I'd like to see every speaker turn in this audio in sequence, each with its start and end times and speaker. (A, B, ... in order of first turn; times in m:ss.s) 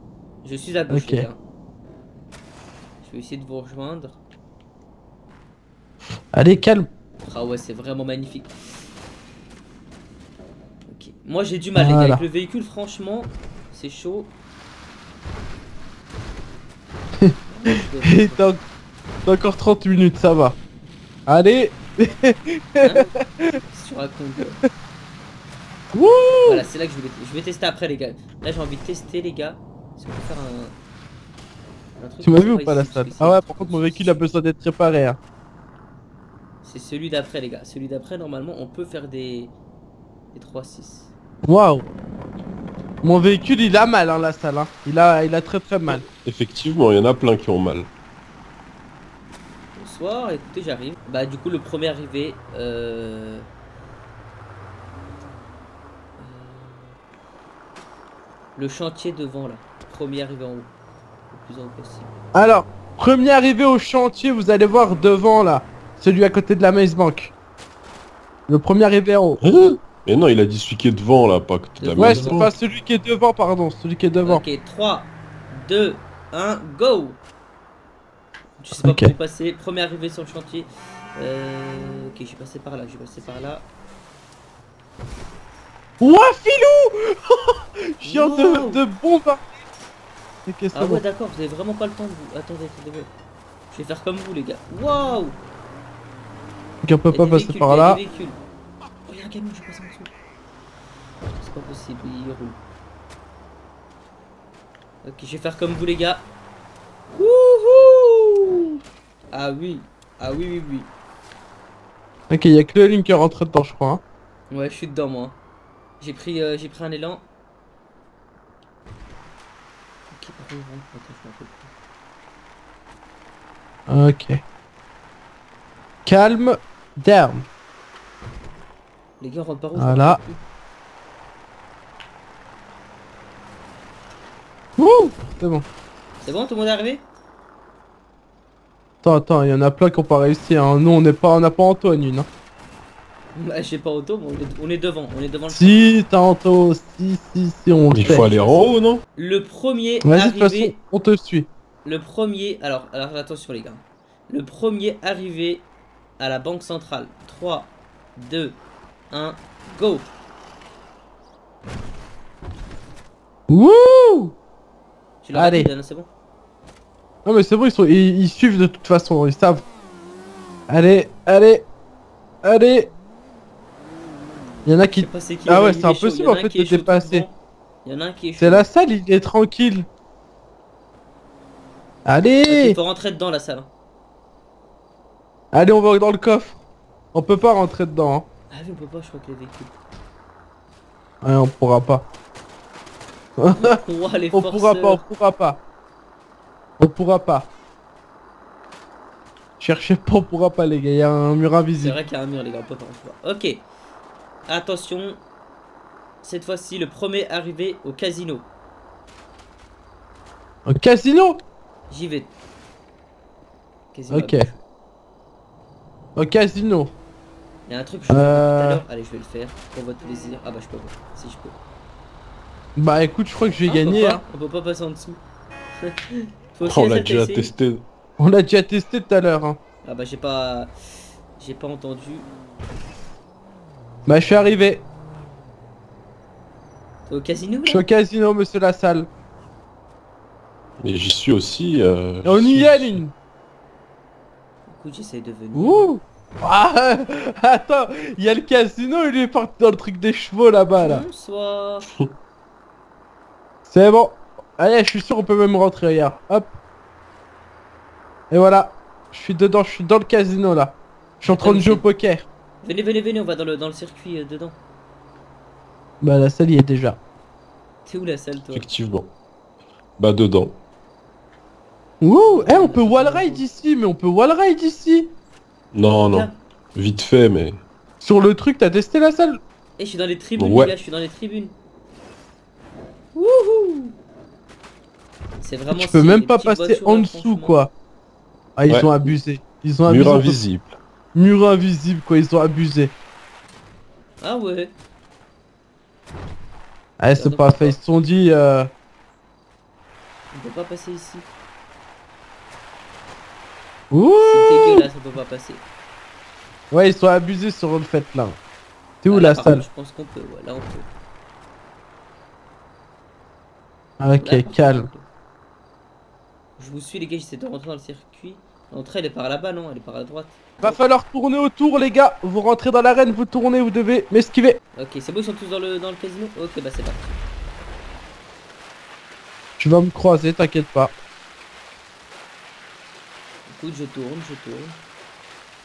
0:00.4-0:01.4 A
0:00.9-0:01.3 B
0:03.0-0:04.2 A
0:06.3-0:06.9 B
0:07.2-0:08.5 A
0:10.9-0:14.3 A
0:11.8-0:12.2 B
0:17.2-0:18.6 B
0:17.5-0:18.5 A
0:19.3-0:20.6 B
0:21.3-0:23.6 B
0:22.8-0:24.6 A
0:25.9-0:26.7 B
0:26.4-0:30.8 A
0:32.0-0:34.2 A
0:32.2-0:35.2 B
0:36.6-0:39.6 A
0:40.3-0:41.1 A
0:41.5-0:41.9 B
0:43.0-0:46.0 B
0:45.9-0:47.9 C
0:49.8-0:53.5 A
0:56.2-0:57.0 A
0:58.6-1:00.7 A
1:01.3-1:02.2 A
1:02.3-1:07.3 B
1:08.5-1:09.4 B
1:09.4-1:12.5 C
1:11.8-1:12.5 A
1:12.0-1:14.4 B
1:14.2-1:17.2 A
1:18.6-1:23.7 A
1:18.8-1:19.1 B
1:26.0-1:29.5 B
1:28.0-1:28.8 A
1:30.5-1:31.0 B
1:30.7-1:33.1 A
1:33.7-1:35.4 A
1:36.8-1:38.0 B
1:37.1-1:38.4 A
1:39.0-1:40.1 A
1:41.4-1:42.6 A
1:45.0-1:46.3 A
1:47.1-1:48.8 A
1:49.3-1:50.9 A
1:52.3-1:54.0 B
1:54.5-1:55.4 A
1:56.0-1:57.3 A
2:00.1-2:01.7 A
2:03.9-2:04.4 B
2:06.1-2:07.5 B
2:09.2-2:10.4 A
2:09.8-2:10.2 B
2:14.8-2:15.7 B
2:16.2-2:17.0 A
2:19.0-2:22.3 B
2:23.4-2:26.0 A
2:25.5-2:28.3 B
2:27.9-2:29.0 C
2:28.0-2:30.8 A
2:30.0-2:31.5 B
2:31.8-2:35.7 A
2:36.2-2:40.1 A
2:43.5-2:44.4 B
2:45.2-2:46.1 A
2:45.3-2:45.7 B
2:47.2-2:49.6 B
2:50.7-2:51.7 B
2:52.4-2:52.9 B
2:54.6-2:57.3 B
2:54.9-2:58.7 A
2:58.4-2:59.9 B
3:02.1-3:02.8 B
3:02.4-3:03.7 A
3:05.5-3:06.6 B
3:07.1-3:08.3 B
3:08.5-3:09.8 A
3:11.2-3:12.1 B
3:13.4-3:13.8 B
3:13.5-3:15.0 A
3:14.3-3:15.6 B
3:16.8-3:17.5 B
3:19.6-3:22.0 B
3:21.8-3:23.6 A
3:24.5-3:25.2 A
3:26.2-3:28.5 A
3:30.7-3:31.4 B
3:31.9-3:32.3 A
3:33.9-3:34.6 A
3:34.1-3:34.5 B
3:36.2-3:37.0 B
3:37.7-3:41.6 A
3:38.1-3:38.8 B
3:42.8-3:44.2 B
3:43.6-3:45.2 A
3:45.8-3:47.5 A
3:46.6-3:47.8 C
3:48.2-3:49.6 B
3:49.8-3:50.7 A
3:51.4-3:52.3 A
3:54.1-3:54.8 B
3:57.1-3:57.9 A
3:57.7-3:59.1 B
4:00.8-4:03.0 C
4:02.2-4:03.1 B
4:04.7-4:05.9 A
4:05.5-4:11.0 B
4:10.8-4:11.9 A
4:13.7-4:16.6 B
4:18.3-4:22.3 B
4:21.3-4:21.9 A
4:22.6-4:24.6 A
4:26.0-4:27.0 B
4:27.9-4:28.7 A
4:28.5-4:29.1 C
4:30.0-4:30.6 C
4:32.0-4:35.1 B
4:32.3-4:33.4 A
4:35.7-4:37.6 C
4:35.9-4:36.4 A
4:38.0-4:39.4 B
4:39.8-4:41.6 A
4:40.4-4:40.7 C
4:43.2-4:44.0 A
4:45.4-4:47.6 A
4:45.7-4:47.7 B
4:48.6-4:50.4 B
4:49.9-4:50.8 C
4:51.2-4:52.9 B
4:54.2-4:54.8 A
4:57.0-4:58.7 B
4:57.1-4:57.8 A
5:00.3-5:01.3 A
5:03.9-5:04.9 B
5:04.2-5:05.6 A
5:06.7-5:08.4 B
5:09.0-5:09.6 B
5:09.1-5:10.9 A
5:14.0-5:14.9 B
5:14.2-5:15.0 A
5:16.6-5:20.8 A
5:20.6-5:24.6 B
5:24.8-5:27.1 A
5:29.6-5:30.9 B
5:33.5-5:34.8 A